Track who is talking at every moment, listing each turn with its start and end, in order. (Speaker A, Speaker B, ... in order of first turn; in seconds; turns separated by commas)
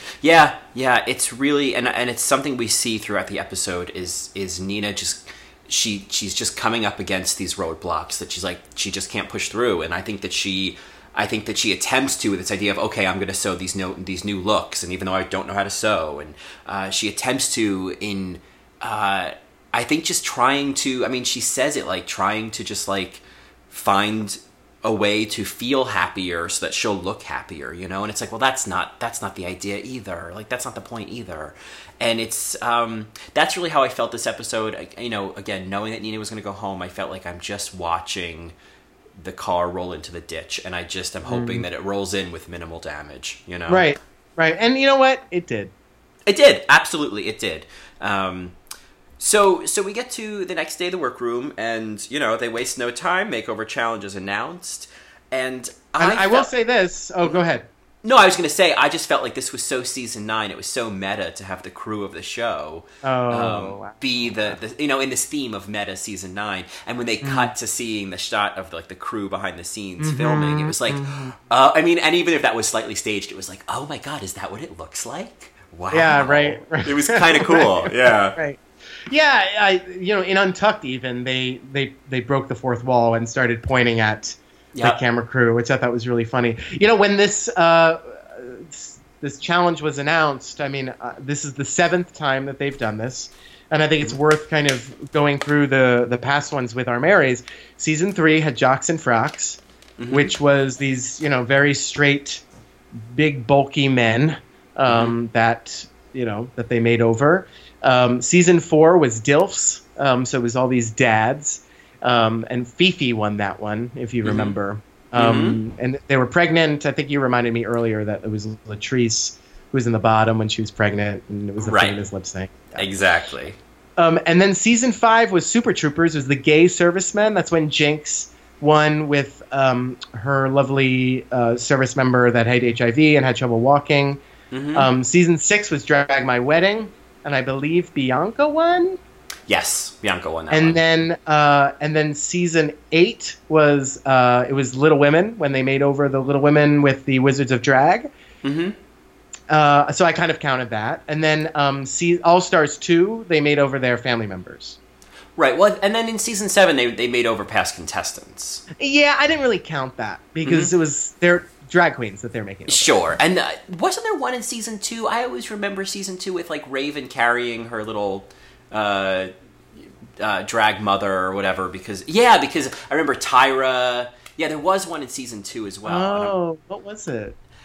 Speaker A: 0.2-38.5, Speaker A: 39.2-43.9, Speaker B: 41.2-41.6, Speaker B: 43.7-45.7, Speaker A: 46.3-48.6, Speaker A: 49.2-56.5, Speaker B: 56.0-57.7, Speaker A: 58.0-78.4, Speaker B: 63.0-64.6, Speaker B: 67.2-67.5, Speaker B: 70.0-71.4, Speaker B: 75.9-102.4, Speaker A: 84.7-85.0, Speaker A: 100.0-100.3, Speaker B: 103.0-122.9, Speaker A: 104.9-105.2, Speaker A: 114.2-114.5, Speaker A: 115.2-115.6, Speaker A: 121.6-122.0, Speaker A: 122.8-123.6, Speaker B: 124.0-134.2, Speaker A: 134.5-134.9, Speaker B: 134.8-139.0, Speaker A: 139.5-140.8, Speaker B: 140.5-148.1, Speaker A: 148.4-148.8, Speaker B: 149.5-154.8, Speaker A: 155.4-158.6, Speaker B: 158.8-162.9, Speaker A: 160.4-160.7, Speaker A: 162.7-176.3, Speaker B: 175.9-177.4